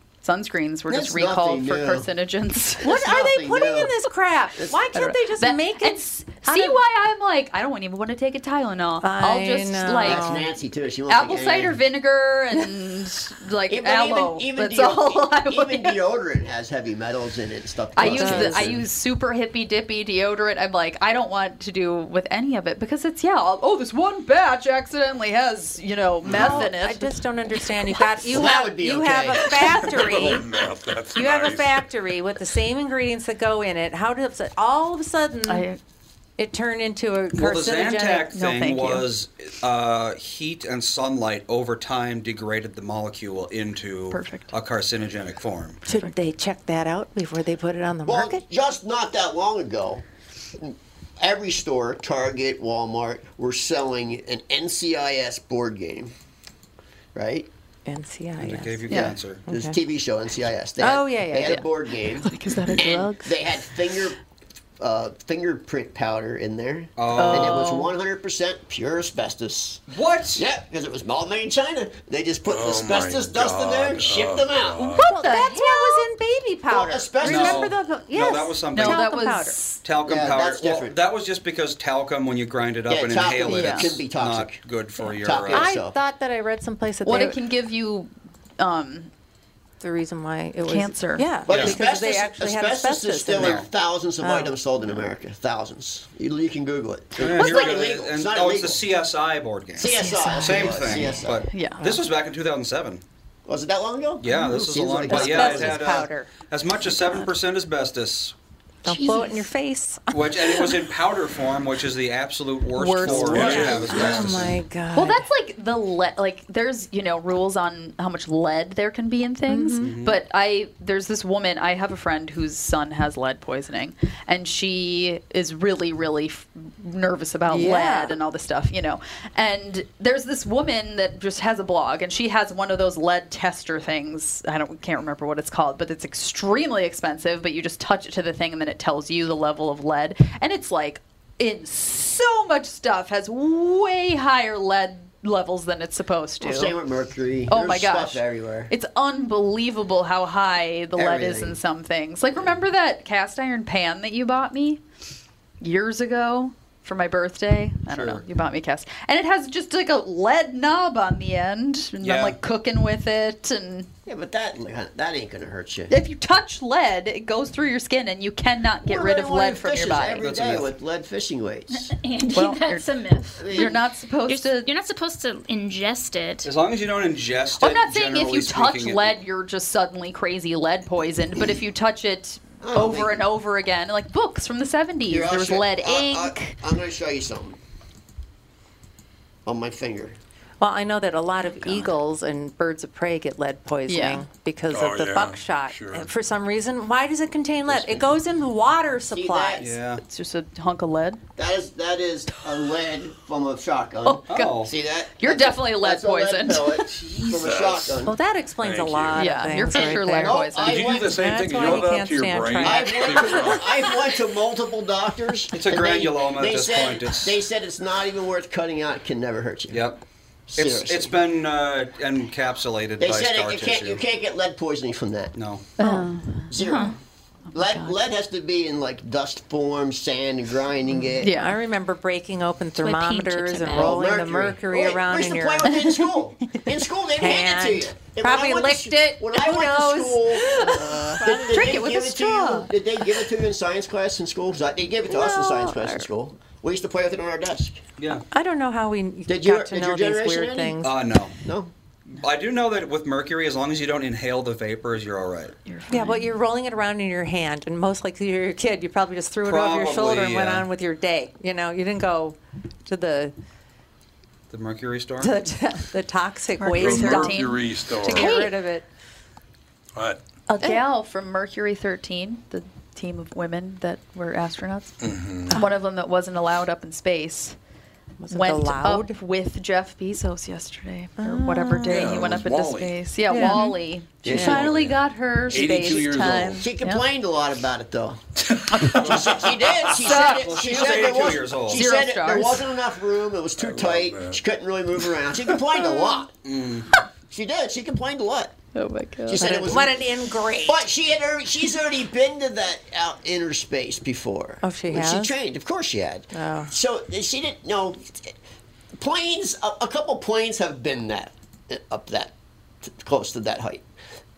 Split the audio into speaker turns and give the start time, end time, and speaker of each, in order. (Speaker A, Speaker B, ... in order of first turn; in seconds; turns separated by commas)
Speaker A: 0.2-2.9, Speaker B: 0.9-2.1, Speaker B: 2.8-3.9, Speaker C: 2.8-6.8, Speaker A: 4.9-10.4, Speaker C: 9.0-10.5, Speaker B: 10.0-11.8, Speaker A: 11.1-16.0, Speaker B: 13.7-18.8, Speaker A: 17.9-27.1, Speaker C: 18.0-18.8, Speaker C: 26.2-30.4, Speaker B: 26.3-26.6, Speaker B: 28.2-30.4, Speaker D: 30.0-31.8, Speaker C: 31.1-35.6, Speaker A: 35.5-35.8, Speaker C: 36.4-38.3, Speaker E: 37.3-45.8, Speaker A: 38.3-39.1, Speaker A: 44.1-44.5, Speaker C: 45.9-48.4, Speaker B: 48.0-50.0, Speaker B: 50.5-56.1, Speaker B: 57.1-57.5, Speaker C: 57.9-59.8, Speaker E: 58.4-59.4, Speaker A: 58.9-59.2, Speaker B: 59.5-64.2, Speaker C: 60.8-61.6, Speaker A: 62.2-63.5, Speaker B: 64.8-74.9, Speaker E: 67.0-67.7, Speaker A: 67.1-67.9, Speaker C: 67.2-67.7, Speaker E: 69.9-70.4, Speaker D: 72.5-75.1, Speaker A: 74.8-76.1, Speaker C: 75.0-79.8, Speaker B: 76.7-77.7, Speaker E: 77.2-79.1, Speaker A: 78.7-79.8, Speaker E: 79.8-85.7, Speaker B: 80.0-81.0, Speaker B: 82.9-84.6, Speaker A: 83.4-84.0, Speaker B: 85.2-86.0, Speaker C: 85.5-87.4, Speaker A: 87.0-89.1, Speaker C: 89.8-93.7, Speaker A: 90.6-91.3, Speaker B: 91.5-98.8, Speaker E: 91.5-91.7, Speaker E: 93.3-93.7, Speaker C: 94.2-94.5, Speaker E: 97.2-103.0, Speaker B: 99.8-101.4, Speaker C: 100.0-100.3, Speaker A: 100.0-101.8, Speaker B: 103.5-105.8, Speaker E: 104.2-108.3, Speaker C: 105.0-106.3, Speaker A: 106.9-107.3, Speaker C: 108.8-110.8, Speaker A: 108.9-109.4, Speaker E: 110.1-114.5, Speaker A: 112.7-113.8, Speaker C: 113.1-115.2, Speaker D: 113.2-114.6, Speaker A: 114.9-146.8, Speaker C: 119.5-120.0, Speaker E: 119.8-120.2, Speaker C: 127.5-128.2, Speaker B: 146.4-148.7, Speaker A: 147.5-154.8, Speaker B: 150.9-151.6, Speaker A: 155.6-163.9, Speaker E: 157.9-158.2, Speaker E: 162.0-162.4, Speaker B: 164.1-165.9, Speaker A: 165.9-170.3, Speaker B: 168.8-171.9, Speaker E: 170.2-170.7, Speaker F: 171.9-173.8, Speaker A: 172.3-172.8, Speaker B: 173.4-173.8, Speaker A: 173.5-174.7, Speaker F: 174.3-176.5, Speaker E: 176.4-179.2, Speaker A: 177.6-186.6, Speaker B: 182.6-183.3, Speaker B: 185.1-187.6, Speaker B: 189.4-190.2, Speaker C: 190.6-199.6, Speaker A: 193.9-194.2, Speaker D: 194.7-196.1, Speaker B: 197.7-198.2, Speaker B: 199.1-199.7, Speaker E: 199.6-200.0, Speaker A: 200.0-201.2, Speaker B: 201.4-208.2, Speaker A: 204.0-206.9, Speaker E: 204.3-204.7, Speaker D: 207.0-208.0, Speaker C: 208.0-210.4, Speaker D: 208.6-209.4, Speaker A: 209.2-210.9, Speaker B: 209.7-211.8, Speaker D: 210.6-213.7, Speaker C: 211.1-213.4, Speaker B: 212.6-219.8, Speaker E: 215.5-217.4, Speaker E: 219.7-220.0, Speaker B: 220.5-221.2, Speaker E: 220.5-224.0, Speaker B: 223.0-225.3, Speaker E: 225.3-225.7, Speaker A: 225.8-226.5, Speaker C: 225.8-226.1, Speaker B: 226.5-226.9, Speaker F: 226.6-226.9, Speaker A: 227.5-228.0, Speaker B: 227.5-231.4, Speaker A: 231.2-231.5, Speaker C: 231.2-236.0, Speaker F: 232.8-234.0, Speaker B: 233.7-247.8, Speaker C: 237.1-242.0, Speaker A: 241.2-242.7, Speaker C: 245.1-246.1, Speaker E: 248.0-248.2, Speaker C: 248.3-251.1, Speaker B: 249.3-250.8, Speaker E: 250.8-251.3, Speaker B: 251.4-251.7, Speaker E: 252.1-255.6, Speaker A: 255.7-256.3, Speaker C: 255.9-263.3, Speaker E: 259.4-260.7, Speaker E: 264.5-265.3, Speaker C: 265.2-268.9, Speaker A: 266.6-268.5, Speaker D: 266.8-268.4, Speaker A: 270.5-274.9, Speaker C: 270.6-270.9, Speaker D: 275.0-275.6, Speaker A: 275.5-277.6, Speaker C: 278.2-279.1, Speaker A: 278.3-287.0, Speaker C: 281.2-282.3, Speaker D: 281.9-282.9, Speaker C: 283.3-283.8, Speaker B: 284.2-284.9, Speaker C: 284.3-284.6, Speaker D: 284.3-284.9, Speaker D: 285.5-286.6, Speaker B: 286.6-296.3, Speaker D: 288.4-290.0, Speaker A: 290.0-290.8, Speaker E: 290.0-291.9, Speaker A: 291.6-292.7, Speaker D: 293.6-294.4, Speaker E: 296.4-296.9, Speaker B: 297.3-298.5, Speaker A: 298.7-299.7, Speaker B: 299.3-300.1, Speaker C: 299.3-300.8, Speaker B: 300.6-308.3, Speaker C: 304.6-305.3, Speaker C: 306.3-306.7, Speaker B: 308.9-313.9